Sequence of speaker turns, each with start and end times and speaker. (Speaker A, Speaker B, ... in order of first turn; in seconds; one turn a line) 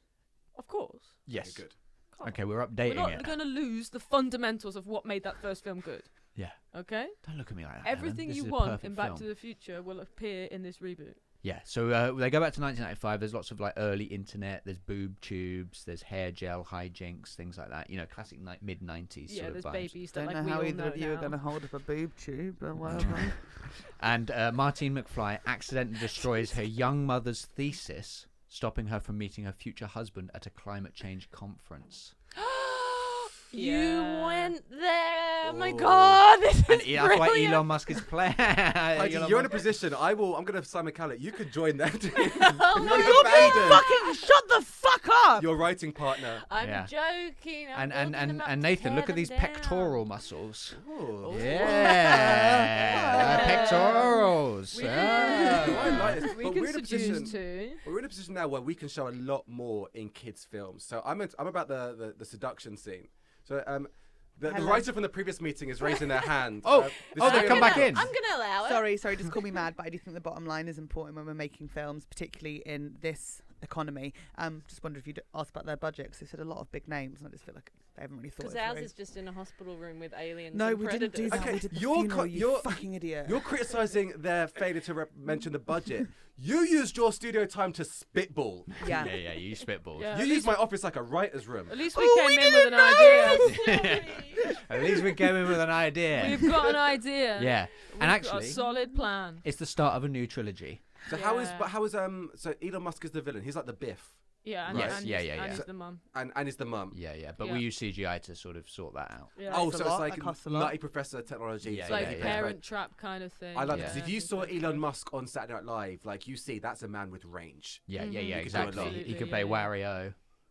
Speaker A: 0.6-1.3
Speaker B: 1.2-3.4
Speaker C: 1.4-1.8
Speaker A: 2.1-11.2
Speaker B: 6.3-9.3
Speaker B: 11.4-20.0
Speaker A: 19.3-21.4
Speaker D: 20.1-23.5
Speaker B: 22.8-32.1
Speaker E: 32.4-38.0
Speaker A: 33.5-34.5
Speaker C: 35.4-36.2
Speaker B: 36.7-39.6
Speaker C: 38.9-43.9
Speaker E: 42.3-44.0
Speaker D: 42.8-45.5
Speaker C: 45.4-46.5
Speaker E: 46.5-50.0
Speaker B: 46.6-46.9
Speaker B: 47.7-56.0
Speaker C: 50.8-51.6
Speaker E: 51.2-52.6
Speaker D: 51.8-54.2
Speaker E: 53.1-54.1
Speaker A: 54.7-57.8
Speaker D: 55.0-55.8
Speaker C: 55.6-68.1
Speaker D: 64.5-64.9
Speaker B: 66.6-68.1
Speaker E: 67.1-69.4
Speaker D: 68.6-78.9
Speaker E: 78.4-81.6
Speaker D: 80.5-83.5
Speaker C: 81.3-88.9
Speaker D: 88.8-89.1
Speaker B: 88.8-90.3
Speaker A: 90.0-90.6
Speaker C: 90.1-91.8
Speaker A: 91.7-93.5
Speaker D: 91.9-93.7
Speaker E: 93.0-94.5
Speaker B: 93.5-96.7
Speaker D: 94.5-95.4
Speaker A: 96.1-99.5
Speaker B: 97.3-98.6
Speaker D: 98.6-99.0
Speaker B: 99.4-101.0
Speaker C: 101.0-107.0
Speaker A: 101.1-101.7
Speaker A: 104.4-106.0
Speaker B: 104.7-105.7
Speaker B: 106.9-109.5
Speaker A: 107.4-107.7
Speaker A: 109.3-109.7
Speaker C: 109.4-112.8
Speaker D: 109.5-110.8
Speaker B: 111.6-112.5
Speaker A: 111.9-114.8
Speaker C: 113.5-119.1
Speaker B: 113.7-114.1
Speaker B: 117.9-120.2
Speaker A: 118.0-119.8